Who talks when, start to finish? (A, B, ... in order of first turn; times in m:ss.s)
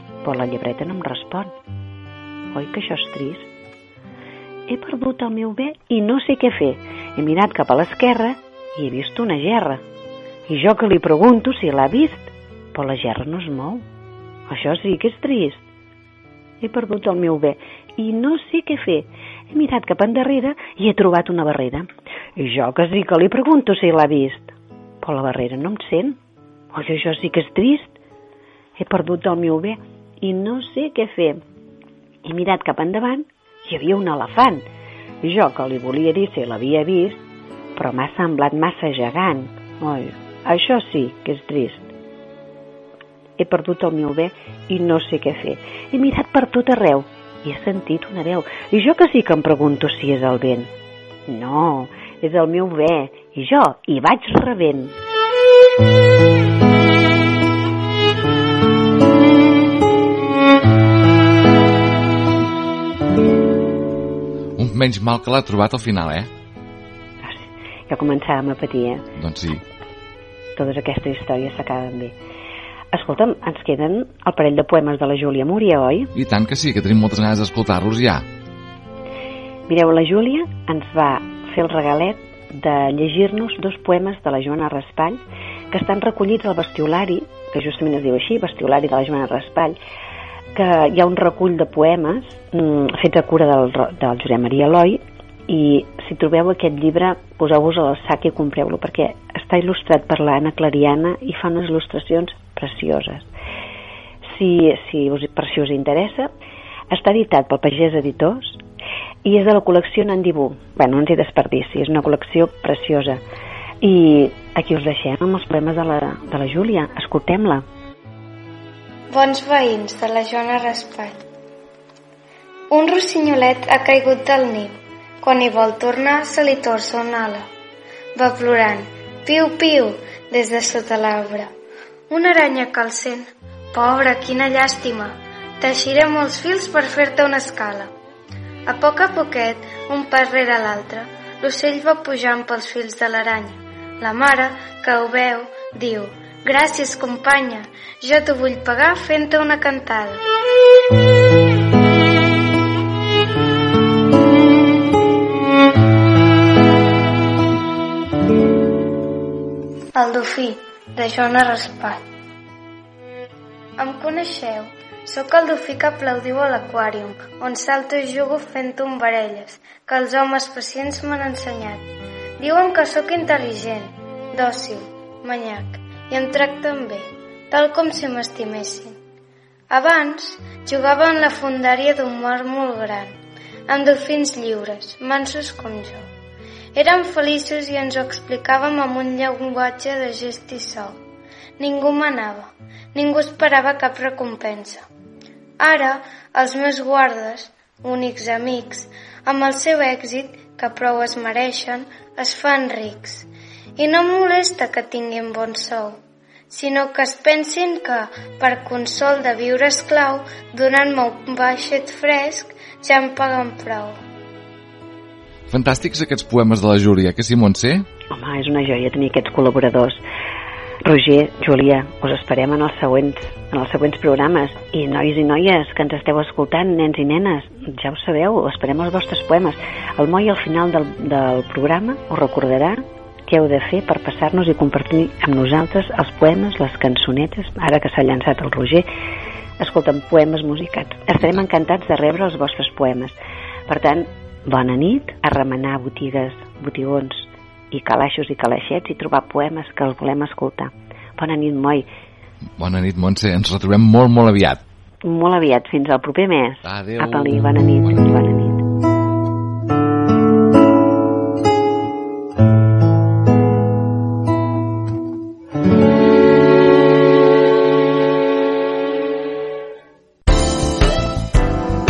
0:00.2-0:01.5 A
0:02.5-0:03.5 A
0:04.7-0:09.8 A
0:10.5-0:13.8 A
0:14.5-0:15.6 A
0:16.6-0:26.2 A
0:26.7-0:27.9 A
0:28.8-0:31.4 A
0:32.2-0:34.6 A
0:35.2-0:37.2 A
0:37.8-0:41.9 A
0:43.4-0:50.7 A
0:51.3-0:54.9 A
1:04.6-1:06.3 B
1:07.2-1:09.0 A
1:09.2-1:09.6 B
1:10.6-1:12.1 A
1:12.9-1:16.1 A
1:16.1-1:18.2 B
1:19.7-1:29.8 A
1:30.5-1:43.3 A
1:44.3-1:46.3 A
1:46.9-1:48.6 A
1:49.2-1:53.2 A
1:53.8-1:57.6 A
1:59.1-2:01.2 C
2:02.7-2:07.4 C
2:08.2-2:11.5 C
2:12.1-2:17.9 C
2:18.7-2:30.2 C
2:40.0-2:42.0 C
2:43.8-2:51.8 C
2:52.4-2:59.0 C
2:59.7-3:03.2 C
3:03.7-3:06.0 C
3:06.7-3:11.0 C
3:11.6-3:14.8 C
3:15.6-3:26.0 C
3:26.5-3:34.0 C
3:35.5-3:37.8 B
3:38.1-3:40.0 A
3:40.8-3:58.9 A
3:59.6-4:03.2 A
4:03.7-4:11.9 A
4:12.6-4:14.6 B
4:15.0-4:18.6 A
4:16.6-4:18.2 B